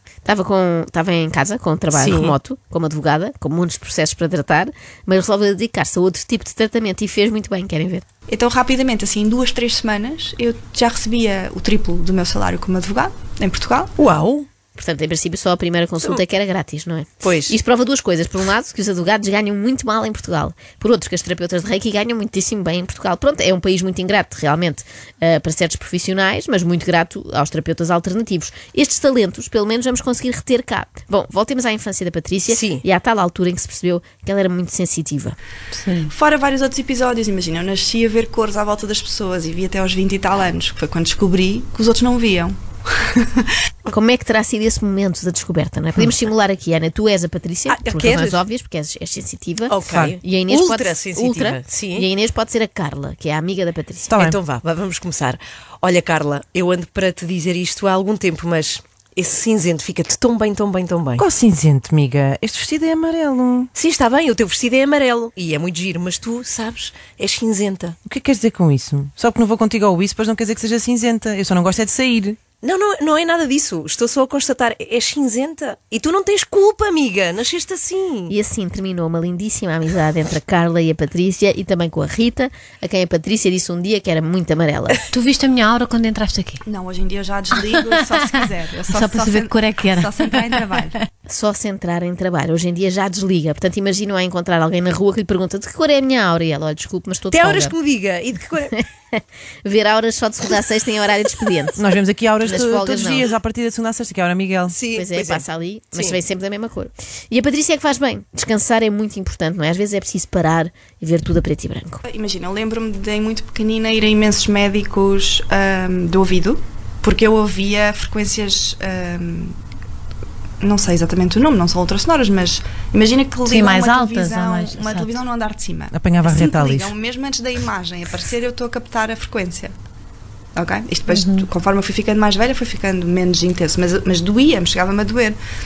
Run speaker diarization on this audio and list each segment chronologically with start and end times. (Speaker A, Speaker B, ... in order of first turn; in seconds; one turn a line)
Speaker A: 0.2-8.1
Speaker B: 1.9-2.4
Speaker C: 8.3-13.9
Speaker B: 14.0-14.5
Speaker A: 14.8-35.4
Speaker B: 17.2-17.6
Speaker B: 32.5-32.8
Speaker D: 35.7-36.1
Speaker C: 36.1-43.5
Speaker A: 43.9-54.2
Speaker B: 47.7-48.4
Speaker B: 49.7-52.1
Speaker E: 49.9-50.2
Speaker B: 54.1-61.2
Speaker E: 54.1-54.4
Speaker E: 61.2-63.7
Speaker B: 63.8-68.0
Speaker E: 68.1-72.4
Speaker B: 72.6-78.3
Speaker A: 78.3-85.0
Speaker D: 85.1-86.6
Speaker C: 86.7-91.0
Speaker D: 87.5-91.0
Speaker A: 91.3-97.8
Speaker B: 97.3-98.8
Speaker A: 98.7-101.8
Speaker E: 101.8-104.8
Speaker A: 102.4-103.3
Speaker B: 104.7-106.2
Speaker A: 104.9-112.0
Speaker C: 112.0-119.6
Speaker C: 120.6-129.7
Speaker D: 123.4-125.2
Speaker E: 125.9-126.9
Speaker C: 130.6-135.4
Speaker D: 131.1-131.5